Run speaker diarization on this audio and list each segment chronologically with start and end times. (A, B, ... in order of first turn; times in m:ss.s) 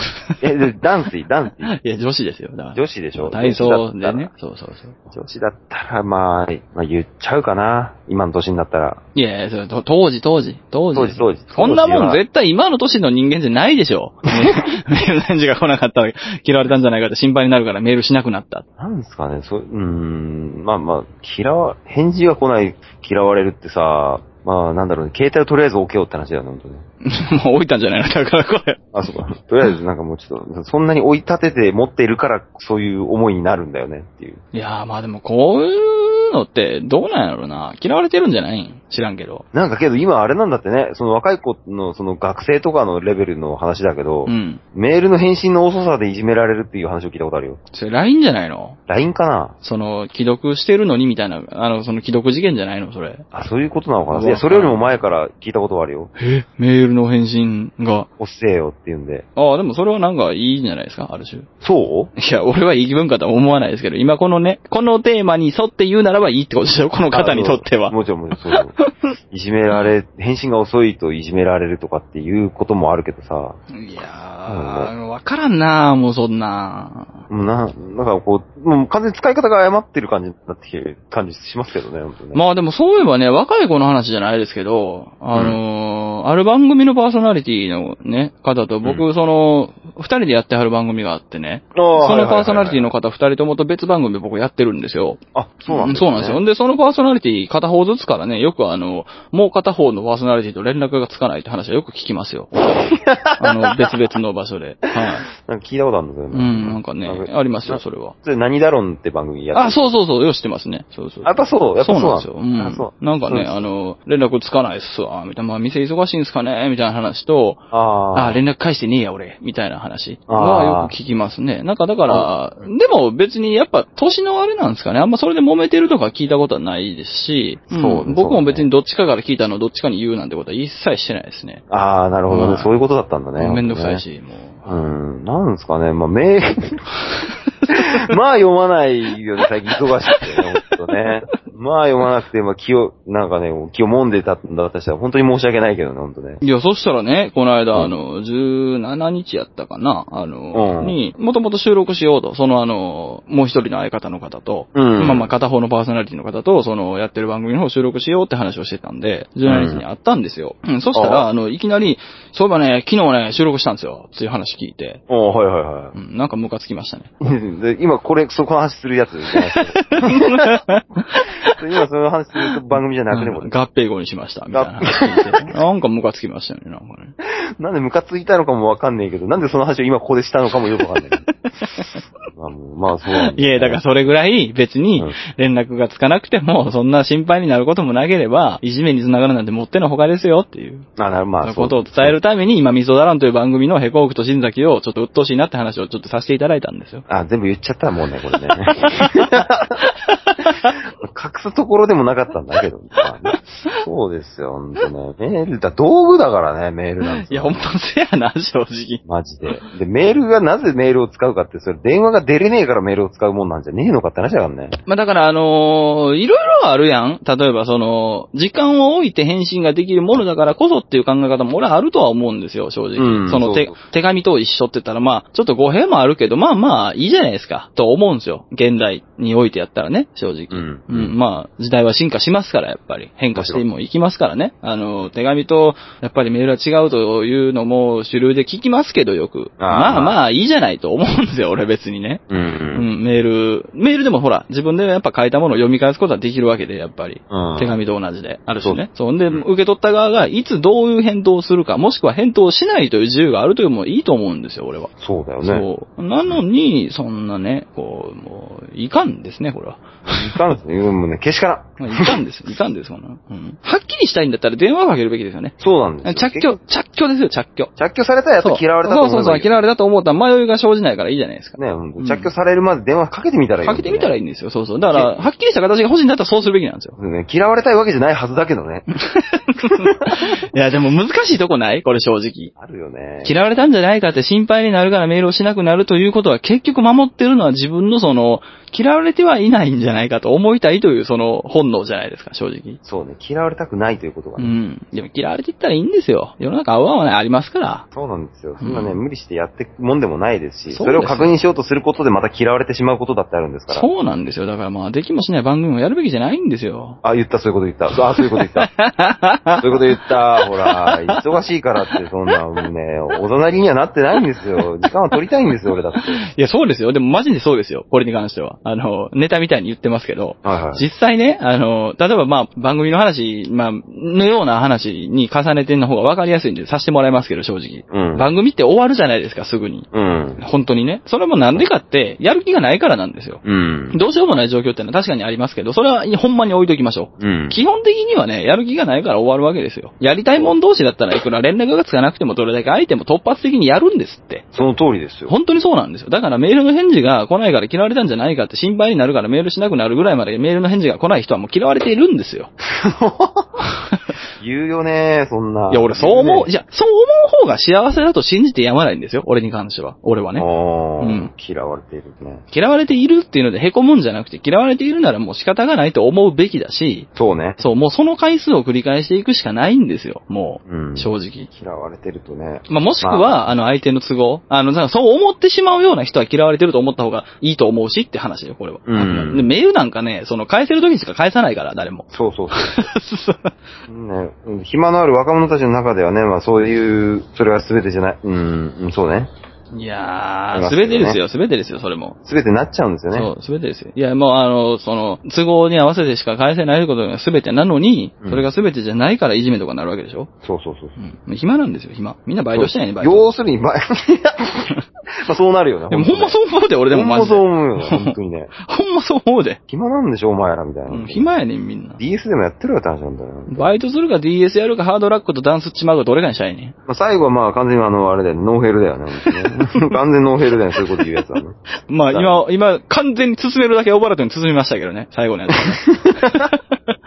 0:00.4-0:01.7 A
0:01.6-0:05.0 B
0:02.7-0:04.3 A
0:05.0-0:09.0 A
0:09.1-0:18.6 B
0:10.9-0:12.2 A
0:14.4-0:14.7 A
0:18.8-0:26.8 A
0:27.0-0:28.8 B
0:28.9-0:34.4 A
0:34.5-0:39.4 B
0:39.5-0:47.6 A
0:44.2-0:44.6 B
0:47.7-0:48.8 B
0:48.9-0:49.5 A
0:49.6-0:53.2 B
0:53.3-0:56.1 A
0:54.1-0:54.8 B
0:56.2-0:58.1 B
0:58.2-0:59.2 A
0:59.4-1:01.5 B
1:01.6-1:02.1 A
1:02.2-1:09.1 B
1:07.1-1:13.6 A
1:13.7-1:17.2 B
1:14.5-1:14.9 A
1:17.3-1:22.4 A
1:22.3-1:42.7 B
1:25.3-1:25.6 A
1:31.7-1:32.9 A
1:35.3-1:36.4 A
1:42.8-1:43.9 A
1:43.3-1:45.3 B
1:45.0-1:49.8 A
1:46.3-1:48.1 B
1:49.5-1:57.6 B
1:51.2-1:53.7 A
1:57.7-1:58.4 A
1:58.1-2:11.6 B
2:00.3-2:00.9 A
2:07.7-2:08.7 A
2:11.7-2:14.0 A
2:12.3-2:12.7 B
2:13.4-2:14.7 B
2:14.6-2:16.8 A
2:17.7-2:26.4 A
2:20.1-2:20.4 B
2:26.4-2:45.0 B
2:30.5-2:31.0 A
2:34.7-2:35.3 A
2:39.4-2:39.8 A
2:40.9-2:41.3 A
2:45.1-2:46.0 A
2:45.9-2:47.1 B
2:47.2-2:50.6 A
2:49.5-2:51.6 B
2:51.4-2:53.5 A
2:53.1-2:57.1 B
2:54.5-2:55.5 A
2:57.2-3:01.2 A
3:01.4-3:02.0 B
3:02.3-3:03.8 A
3:03.1-3:10.9 B
3:11.0-3:12.2 A
3:11.4-3:17.0 B
3:17.1-3:19.9 A
3:19.0-3:20.8 B
3:20.5-3:27.6 A
3:27.0-3:29.6 B
3:29.1-3:34.8 A
3:34.8-4:02.2 B
3:43.0-3:43.7 A
3:50.5-3:51.1 A
3:53.3-3:53.6 A
3:59.6-4:00.2 A
4:02.3-4:02.9 A
4:02.7-4:20.4 B
4:07.3-4:07.8 A
4:08.6-4:09.4 A
4:15.0-4:15.6 A
4:20.0-4:22.2 A
4:21.8-4:27.7 B
4:25.6-4:26.6 A
4:27.8-4:29.6 A
4:28.4-4:32.3 B
4:31.6-4:34.1 A
4:33.6-4:37.0 B
4:37.0-4:38.8 A
4:38.9-4:42.5 B
4:42.6-4:43.5 A
4:43.2-4:52.8 B
4:52.8-4:54.5 A
4:54.4-4:57.8 B
4:57.9-5:03.9 A
4:58.6-4:59.0 B
5:00.7-5:01.3 B
5:03.7-5:07.0 B
5:07.0-5:08.7 A
5:08.2-5:09.8 B
5:09.6-5:16.2 A
5:10.4-5:11.2 B
5:16.1-5:33.4 B
5:20.4-5:20.8 A
5:27.9-5:28.3 A
5:29.9-5:30.4 A
5:33.4-5:34.0 A
5:33.9-5:44.5 B
5:37.2-5:37.6 A
5:44.5-5:45.3 A
5:45.3-5:52.5 B
5:52.7-5:53.6 A
5:53.6-5:54.0 B
5:54.4-5:56.5 A
5:55.7-6:00.4 B
6:00.4-6:02.4 A
6:01.0-6:01.3 B
6:02.5-6:07.1 B
6:07.2-6:07.6 A
6:07.6-6:11.5 B
6:10.7-6:13.4 A
6:12.7-6:23.5 B
6:18.8-6:19.5 A
6:22.1-6:22.9 A
6:23.9-6:29.3 A
6:29.7-6:32.2 B
6:30.5-6:31.2 A
6:32.2-6:33.3 A
6:33.1-6:40.3 B
6:40.4-6:41.0 A
6:41.0-6:43.3 B
6:42.5-6:48.5 A
6:45.9-6:49.6 B
6:49.7-6:51.3 A
6:50.9-6:52.0 B
6:52.0-6:53.7 A
6:53.5-6:56.8 B
6:56.9-7:01.6 A
6:59.2-6:59.9 B
7:01.9-7:07.0 B
7:02.1-7:02.4 A
7:05.6-7:06.5 A